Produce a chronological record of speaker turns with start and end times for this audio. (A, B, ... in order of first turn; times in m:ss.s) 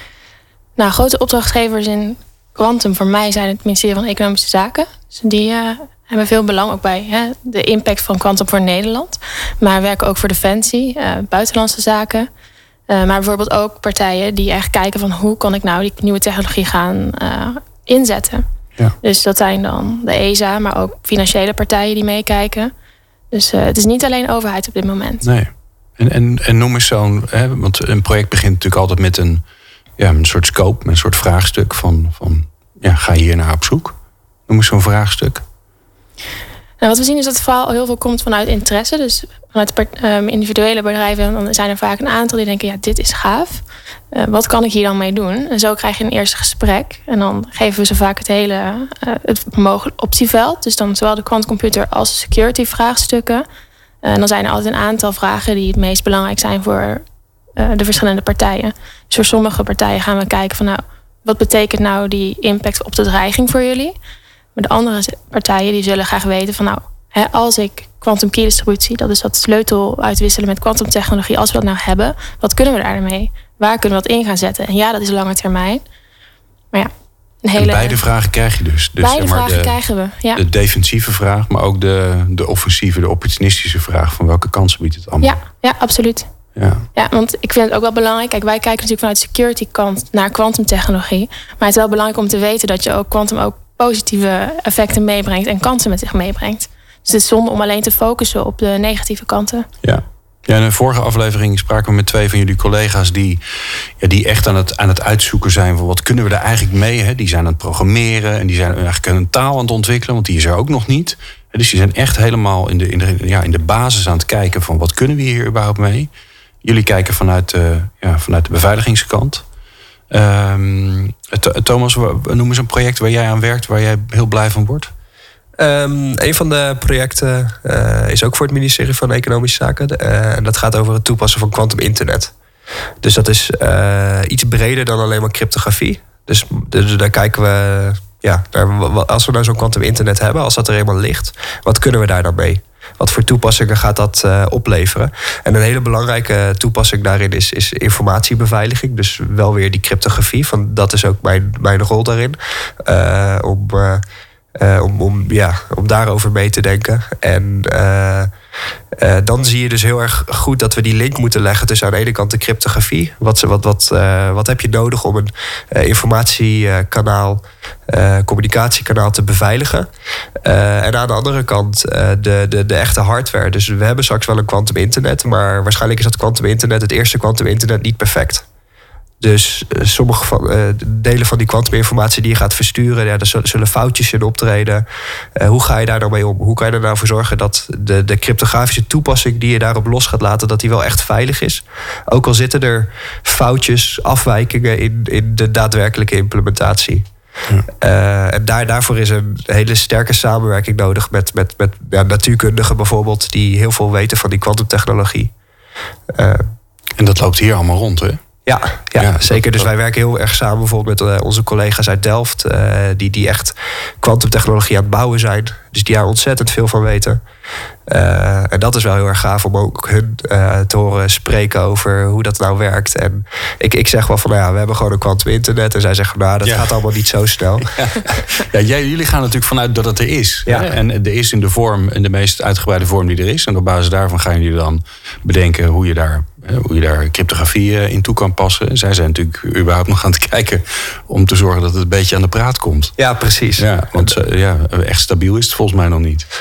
0:00.8-0:12.3 A
0:12.9-0:18.5 A
0:19.0-0:22.7 A
0:23.3-0:25.3 A
0:25.2-0:29.4 B
0:30.0-0:34.0 B
0:34.5-0:35.4 B
0:36.8-0:53.5 A
0:54.0-0:57.0 A
0:57.6-1:04.0 A
1:04.6-1:15.8 A
1:17.4-1:18.0 A
1:17.6-1:19.8 B
1:19.0-1:20.4 A
1:20.3-1:25.4 B
1:25.2-1:26.3 A
1:26.6-1:26.9 B
1:27.0-1:39.7 A
1:39.8-1:56.1 B
1:56.6-1:59.4 B
2:00.1-2:04.9 B
2:05.6-2:12.3 C
2:13.0-2:34.0 C
2:34.6-2:38.3 C
2:39.0-2:49.9 C
2:50.4-2:58.4 C
2:59.2-3:04.8 C
3:05.4-3:17.1 C
3:17.8-3:25.3 C
3:26.1-3:26.4 C
3:27.0-3:28.2 B
3:28.5-3:37.2 C
3:29.0-3:29.7 B
3:37.9-3:47.7 C
3:46.4-3:46.8 B
3:47.6-4:03.0 B
3:50.5-3:50.7 C
4:03.0-4:04.2 C
4:03.6-4:06.3 B